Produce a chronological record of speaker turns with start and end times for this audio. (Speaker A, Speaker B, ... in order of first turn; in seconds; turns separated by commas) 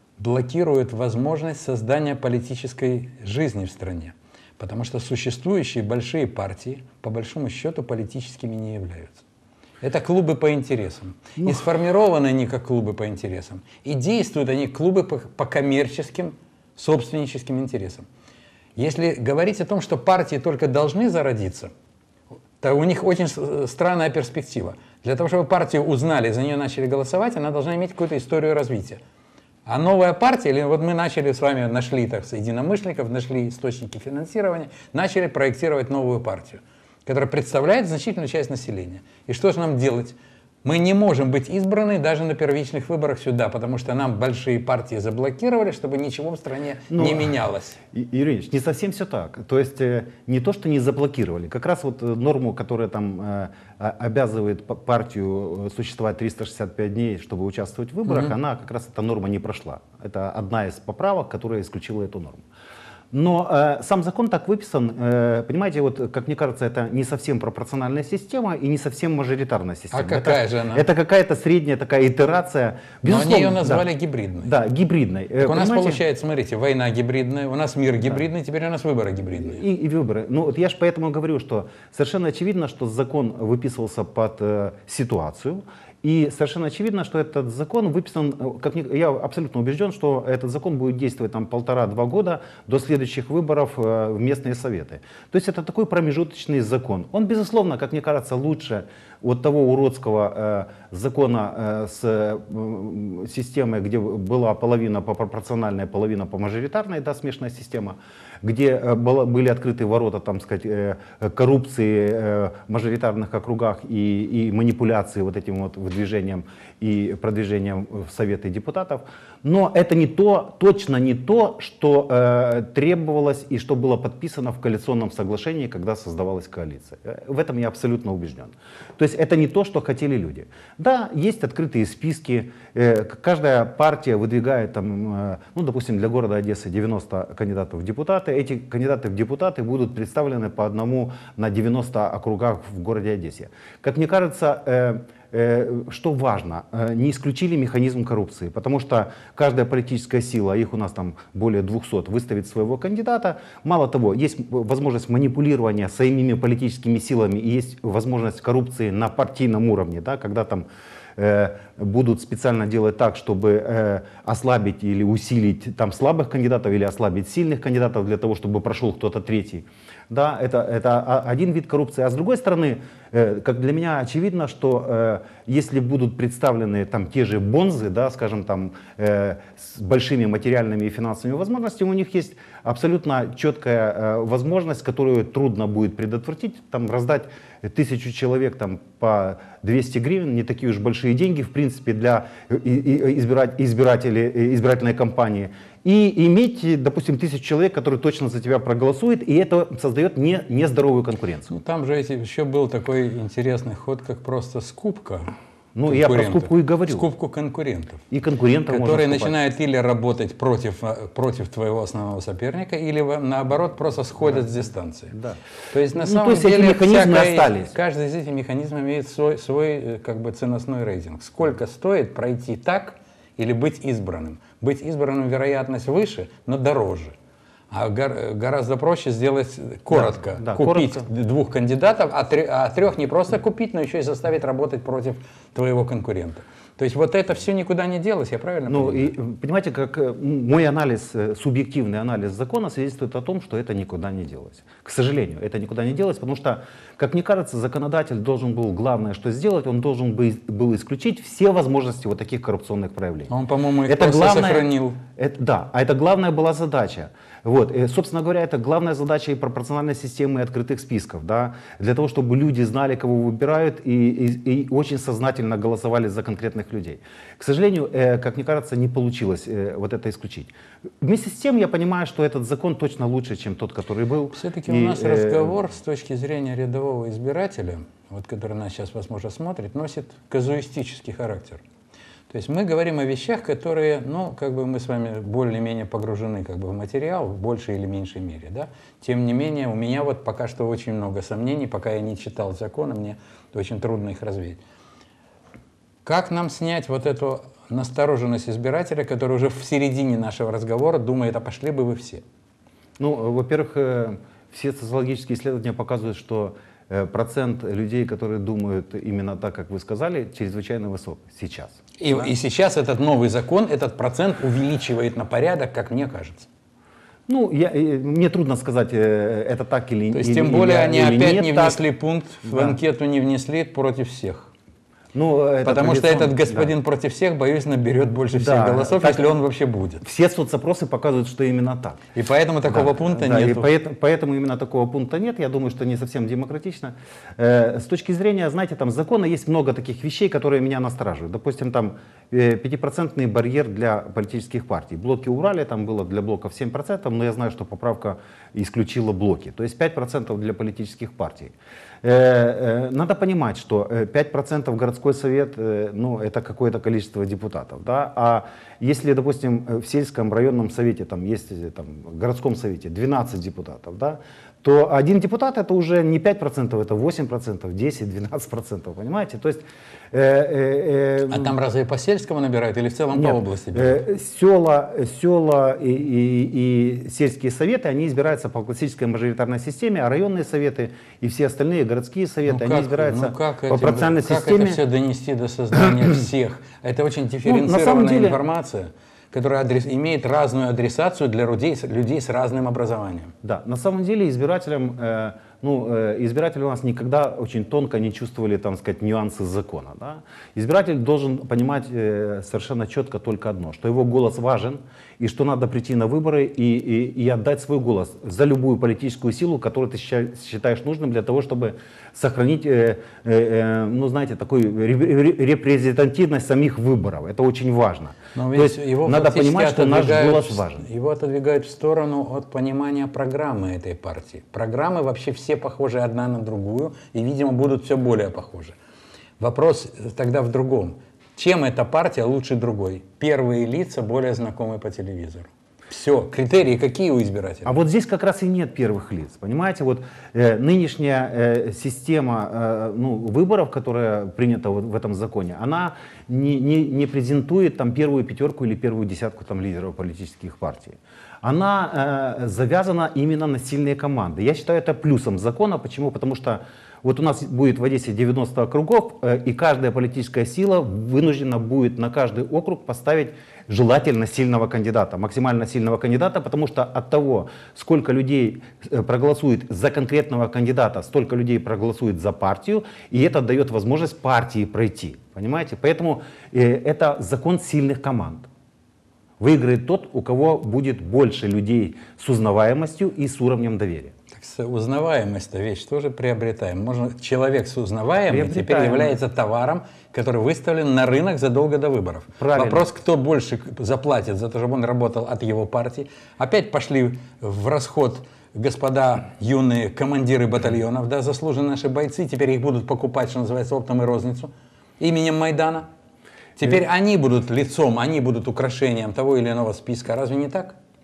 Speaker A: 0.2-9.2, Speaker A: 9.8-18.1, Speaker A: 18.8-21.7, Speaker A: 22.6-29.0, Speaker A: 29.6-47.8, Speaker B: 46.9-47.3, Speaker B: 47.9-62.4, Speaker A: 58.1-58.3, Speaker B: 63.1-73.8, Speaker A: 69.9-70.8, Speaker A: 73.0-74.5, Speaker B: 74.4-76.0, Speaker A: 75.4-79.6, Speaker B: 79.4-201.6, Speaker A: 201.5-205.3, Speaker B: 205.7-207.1, Speaker A: 205.8-208.0, Speaker B: 208.1-209.3, Speaker A: 208.7-215.1, Speaker B: 215.1-215.4, Speaker A: 215.7-227.1, Speaker B: 215.9-217.7, Speaker A: 227.7-239.1, Speaker B: 229.9-231.1, Speaker B: 238.7-253.3, Speaker A: 253.3-255.0, Speaker B: 253.8-275.6, Speaker A: 274.3-281.6, Speaker A: 282.3-294.6, Speaker A: 296.0-302.2, Speaker B: 303.0-312.3, Speaker A: 312.0-316.5, Speaker B: 317.3-321.9, Speaker A: 320.1-324.5, Speaker B: 322.4-322.8, Speaker B: 325.1-326.7, Speaker A: 325.6-330.0, Speaker B: 328.3-329.3, Speaker B: 330.0-332.0, Speaker A: 332.1-333.7, Speaker B: 332.6-371.6, Speaker A: 371.3-374.0, Speaker B: 373.1-384.8, Speaker A: 382.5-393.3, Speaker B: 387.4-388.4, Speaker B: 393.4-420.9, Speaker A: 418.3-428.7, Speaker A: 429.4-437.8, Speaker B: 437.6-478.5, Speaker B: 479.4-484.1, Speaker A: 484.3-505.9, Speaker B: 488.3-489.1, Speaker B: 492.4-492.8, Speaker A: 506.6-510.8